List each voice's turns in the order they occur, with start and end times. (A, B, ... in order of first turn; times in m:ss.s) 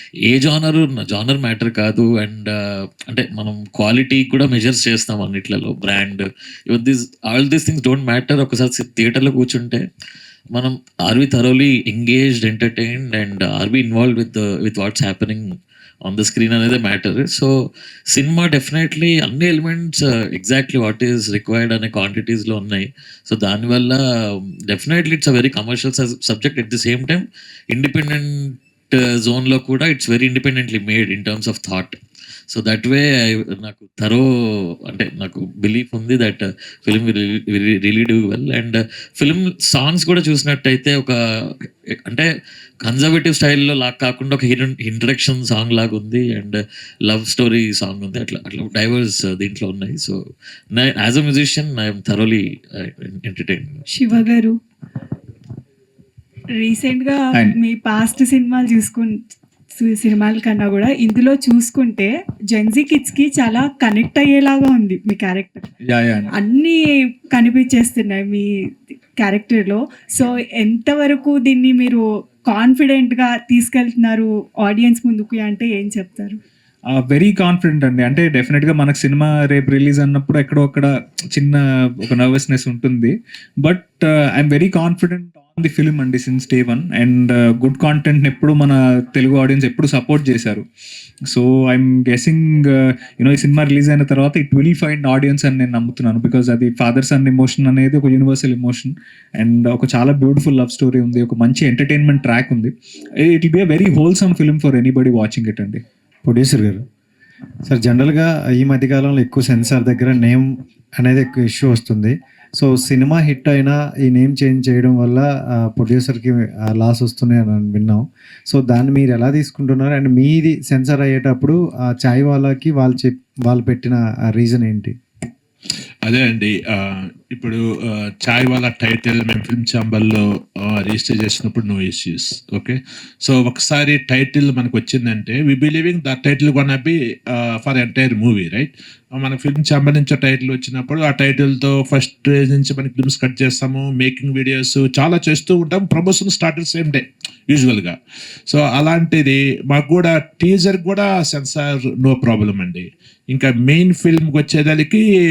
0:00.3-0:09.8 A
0:10.5-0:32.0 A
0:32.5-0:42.3 A
0:42.8-0:50.2 A
0:50.7-0:53.7 A
0:53.9-0:54.5 B
0:56.6-0:59.2 B
0:57.3-0:57.6 C
0:59.7-1:05.6 B
1:05.9-1:06.3 C
1:06.3-1:06.8 B
1:07.3-1:08.4 B
1:09.2-1:16.4 B
1:16.9-1:30.6 C
1:31.3-1:45.8 C
1:46.2-1:46.8 D
1:47.6-2:05.0 D
2:06.0-2:28.0 E
2:28.5-2:35.0 E